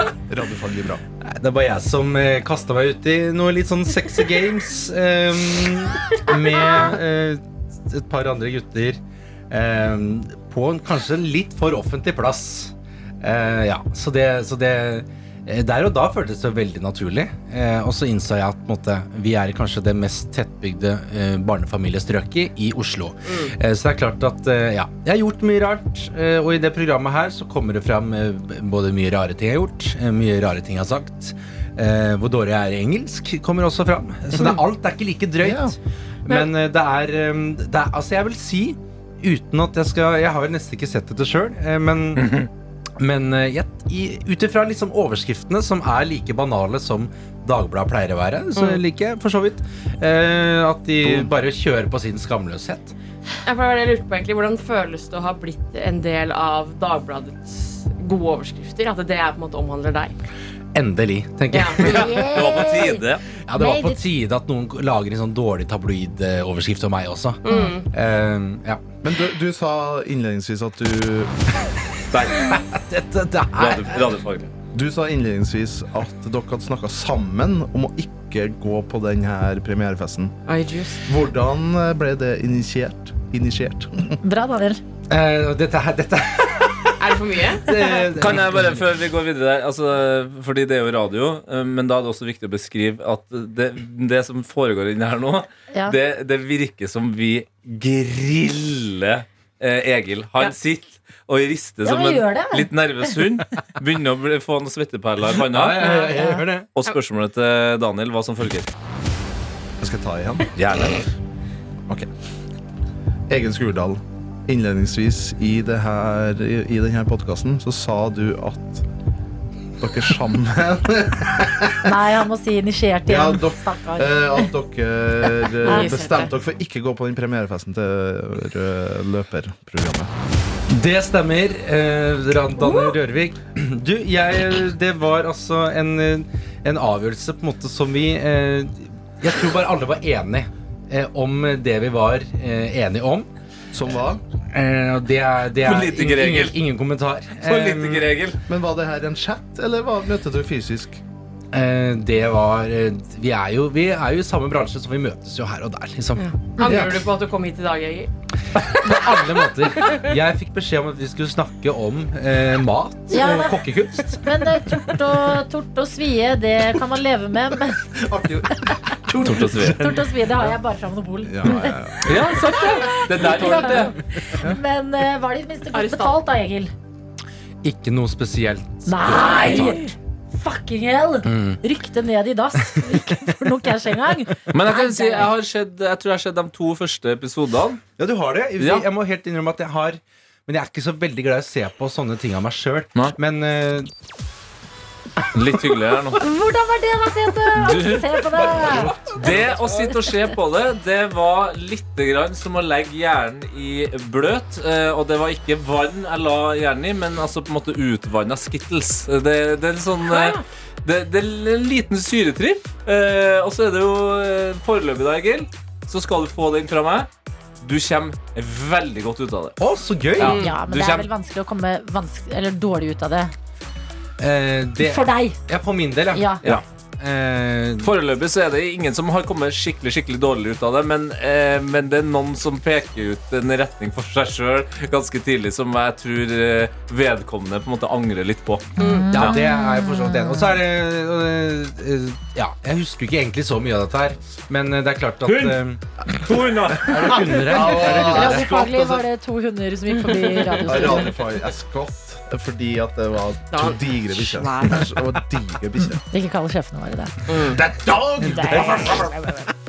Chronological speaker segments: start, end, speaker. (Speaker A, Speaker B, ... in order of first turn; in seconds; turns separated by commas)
Speaker A: 0.3-1.0, Speaker B: 1.2-42.4, Speaker C: 23.3-23.6, Speaker A: 35.4-35.8, Speaker D: 42.2-42.5, Speaker B: 43.0-52.9, Speaker C: 48.6-48.8, Speaker C: 53.5-60.1, Speaker B: 60.7-62.1, Speaker C: 61.5-62.0, Speaker D: 61.8-63.2, Speaker E: 61.8-64.1, Speaker B: 63.4-68.8, Speaker C: 67.4-67.9, Speaker A: 69.0-71.3, Speaker D: 72.1-72.5, Speaker B: 72.2-74.1, Speaker D: 73.6-74.5, Speaker A: 74.7-80.4, Speaker C: 80.5-81.0, Speaker A: 81.0-84.2, Speaker E: 84.2-84.8, Speaker B: 85.1-87.0, Speaker C: 87.0-88.1, Speaker B: 87.5-88.9, Speaker D: 88.0-105.9, Speaker E: 95.7-96.0, Speaker E: 101.8-102.7, Speaker B: 105.4-106.7, Speaker E: 105.8-106.5, Speaker D: 106.8-108.7, Speaker A: 109.8-110.5, Speaker D: 110.6-111.0, Speaker A: 113.3-118.8, Speaker A: 119.8-121.9, Speaker E: 121.8-124.5, Speaker A: 123.1-130.1, Speaker E: 125.6-126.0, Speaker C: 125.6-126.3, Speaker B: 130.7-143.3, Speaker A: 143.7-144.2, Speaker B: 144.5-148.2, Speaker D: 145.6-146.6, Speaker D: 147.4-148.4, Speaker A: 148.5-151.0, Speaker B: 151.5-156.9, Speaker C: 156.2-158.1, Speaker A: 156.6-157.0, Speaker B: 158.7-164.4, Speaker E: 163.1-163.6, Speaker E: 164.1-167.9, Speaker A: 167.9-169.3, Speaker D: 169.2-170.0, Speaker B: 169.2-170.0, Speaker E: 169.2-171.8, Speaker A: 171.2-172.1, Speaker D: 172.0-174.0, Speaker E: 172.3-176.7, Speaker C: 175.7-176.2, Speaker B: 177.6-179.8, Speaker E: 178.9-185.3, Speaker B: 181.2-181.6, Speaker B: 182.6-183.3, Speaker D: 184.5-187.8, Speaker B: 188.0-193.9, Speaker D: 188.6-188.9, Speaker D: 195.3-196.2, Speaker E: 196.2-200.2, Speaker D: 197.6-217.1, Speaker C: 210.1-210.4, Speaker D: 217.6-219.6, Speaker B: 219.6-220.4, Speaker D: 220.2-221.1, Speaker C: 220.2-220.6, Speaker E: 220.2-223.3, Speaker B: 224.2-227.9, Speaker E: 224.8-225.4, Speaker E: 226.1-226.4, Speaker D: 227.8-238.7, Speaker E: 238.8-240.6, Speaker C: 238.8-239.1, Speaker B: 239.1-245.8, Speaker D: 245.2-247.9, Speaker A: 246.7-249.1, Speaker B: 246.9-248.5, Speaker E: 247.9-251.2, Speaker C: 250.1-250.9, Speaker A: 250.7-256.0, Speaker C: 253.5-254.9, Speaker E: 256.0-257.2, Speaker C: 257.3-257.6, Speaker B: 257.3-259.2, Speaker A: 257.8-258.9, Speaker C: 258.6-259.1